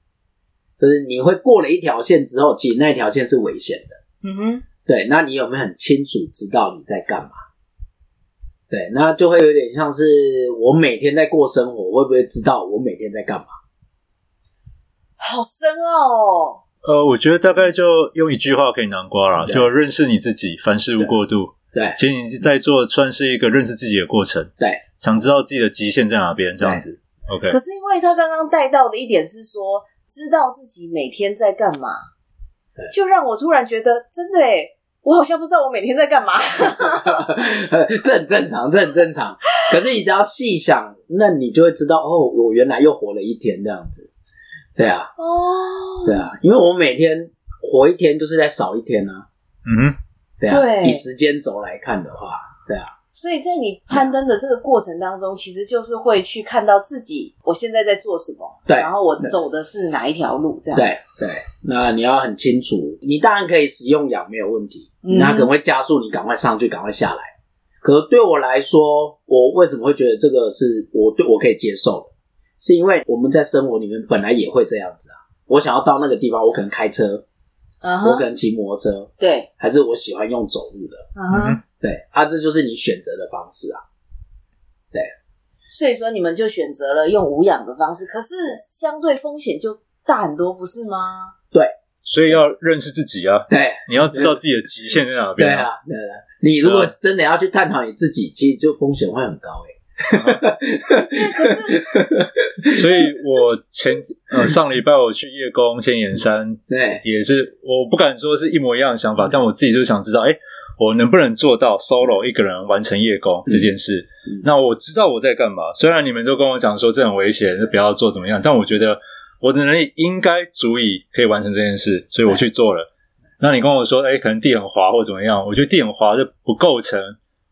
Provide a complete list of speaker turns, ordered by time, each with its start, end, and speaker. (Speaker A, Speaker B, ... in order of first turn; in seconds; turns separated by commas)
Speaker A: 0.8-4.0, Speaker B: 4.2-4.6, Speaker A: 4.8-7.4, Speaker A: 8.7-13.5, Speaker B: 15.2-16.6, Speaker C: 16.8-27.6, Speaker B: 27.5-32.0, Speaker B: 32.9-37.3, Speaker A: 36.7-44.1, Speaker A: 44.8-45.1, Speaker B: 45.2-46.2, Speaker A: 46.0-49.2, Speaker C: 49.6-50.0, Speaker A: 50.4-52.9, Speaker B: 50.5-51.0, Speaker B: 53.1-61.0, Speaker A: 58.7-59.3, Speaker A: 60.7-67.3, Speaker B: 65.0-65.5, Speaker A: 67.8-77.2, Speaker B: 77.8-78.2, Speaker A: 78.0-81.1, Speaker B: 79.2-79.5, Speaker B: 81.2-81.6, Speaker C: 81.3-81.6, Speaker A: 81.8-83.8, Speaker B: 85.7-91.3, Speaker C: 92.0-95.7, Speaker A: 93.5-94.3, Speaker A: 95.4-103.1, Speaker C: 96.6-96.9, Speaker C: 100.1-100.4, Speaker B: 100.9-101.9, Speaker C: 102.7-122.9, Speaker A: 106.7-107.0, Speaker C: 123.4-127.2